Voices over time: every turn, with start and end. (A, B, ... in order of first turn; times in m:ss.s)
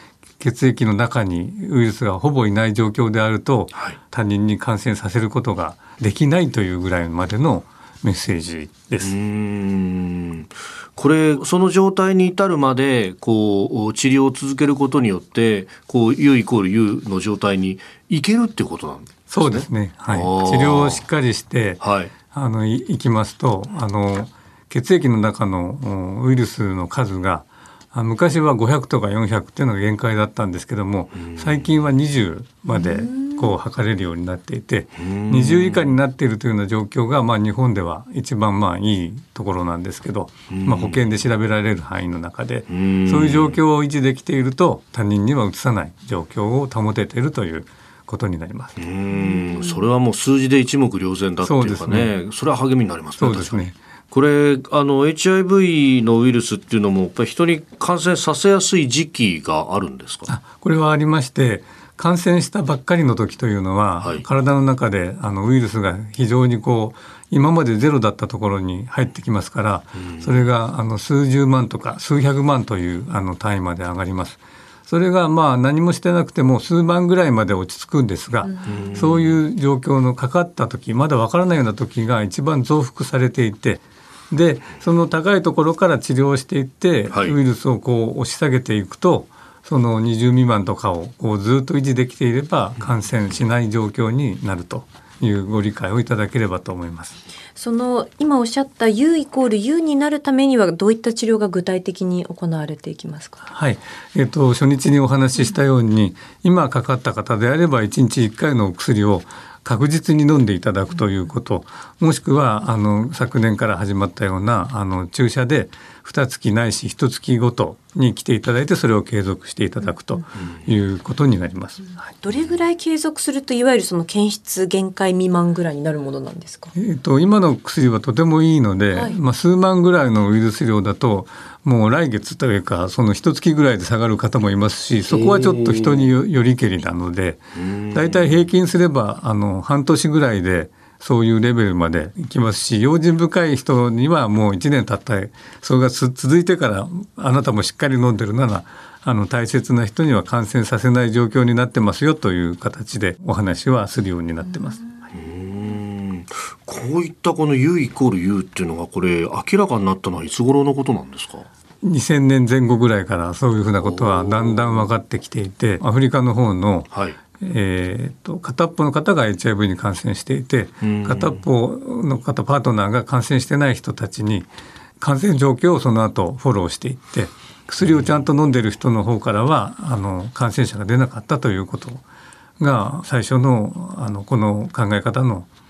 0:00.4-0:09.1 A
0:09.0-0:21.0 B
0:19.3-0:48.8 A
0:21.8-0:22.1 B
0:31.2-0:31.7 B
0:32.7-0:33.5 C
0:35.0-0:35.9 B
0:40.5-0:41.0 B
0:42.7-0:43.6 B
0:48.8-1:00.3 B
0:49.3-0:49.7 C
0:51.4-0:52.1 A
0:53.2-0:53.8 A
1:00.3-1:37.1 A
1:10.0-1:10.4 B
1:18.6-1:19.4 B
1:27.1-1:27.4 B
1:37.6-1:43.4 C
1:43.5-2:02.1 A
2:02.2-2:06.7 C
2:06.8-2:34.9 A
2:15.0-2:16.1 B
2:17.5-2:18.4 B
2:35.1-2:41.5 B
2:41.8-2:46.9 A
2:43.8-2:44.9 B
2:46.9-2:47.2 B
2:47.4-2:54.5 A
2:50.8-2:51.4 B
2:55.0-3:02.0 A
3:02.6-3:05.5 A